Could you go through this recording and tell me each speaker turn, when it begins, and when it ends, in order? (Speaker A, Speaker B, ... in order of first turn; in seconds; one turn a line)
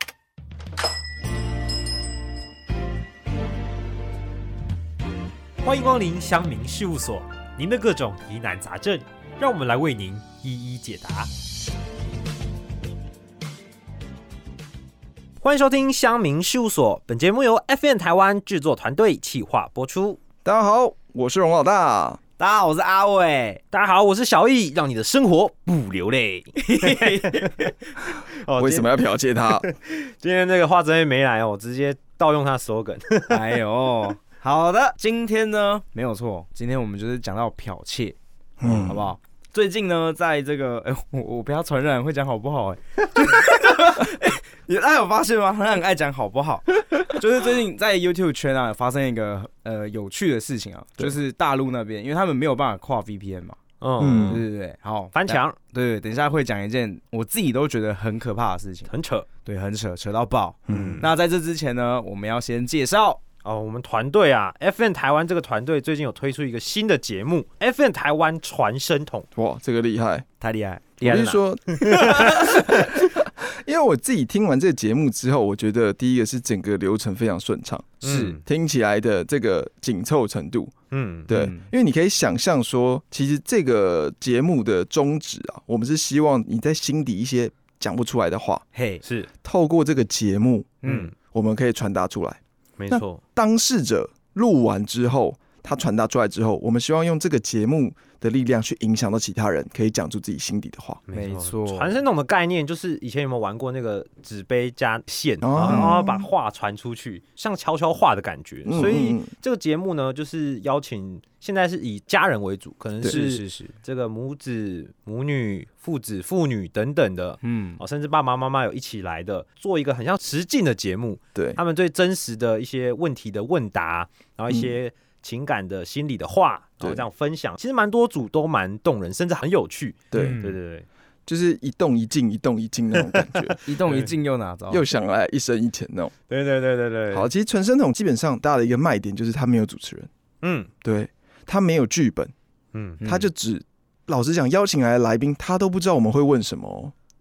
Speaker A: 5.6-11.3
Speaker A: 15.4-20.2
Speaker B: 20.4-22.2
Speaker C: 22.4-23.6
Speaker A: 23.7-28.9
Speaker C: 26.6-27.7
Speaker B: 28.6-29.6
Speaker A: 29.6-33.4
Speaker C: 33.3-53.6
Speaker B: 38.6-39.1
Speaker A: 53.8-54.5
Speaker B: 54.0-54.4
Speaker C: 54.2-58.9
Speaker A: 55.1-55.6
Speaker A: 58.9-59.3
Speaker C: 59.4-63.2
Speaker B: 60.7-61.0
Speaker A: 60.7-61.1
Speaker A: 63.4-69.3
Speaker B: 69.3-70.2
Speaker C: 70.4-71.0
Speaker B: 71.0-80.7
Speaker A: 71.0-73.1
Speaker C: 71.9-72.3
Speaker A: 78.0-78.4
Speaker C: 78.0-78.3
Speaker A: 80.9-81.3
Speaker B: 81.3-88.6
Speaker C: 81.3-81.7
Speaker C: 88.7-89.0
Speaker A: 89.0-89.3
Speaker B: 89.4-101.0
Speaker C: 90.8-91.1
Speaker A: 90.8-91.1
Speaker A: 92.8-93.2
Speaker A: 101.1-130.8
Speaker C: 101.1-102.0
Speaker B: 105.4-106.3
Speaker C: 105.6-105.9
Speaker B: 108.7-109.3
Speaker C: 113.0-113.7
Speaker C: 117.4-117.8
Speaker B: 121.3-121.6
Speaker B: 130.1-130.4
Speaker C: 130.2-130.6
Speaker B: 131.2-133.6
Speaker A: 133.1-134.1
Speaker C: 133.6-134.8
Speaker B: 134.7-136.1
Speaker A: 136.3-137.3
Speaker B: 137.1-140.1
Speaker A: 140.4-140.7
Speaker B: 140.8-142.3
Speaker A: 142.7-143.0
Speaker C: 143.0-143.3
Speaker B: 143.0-146.9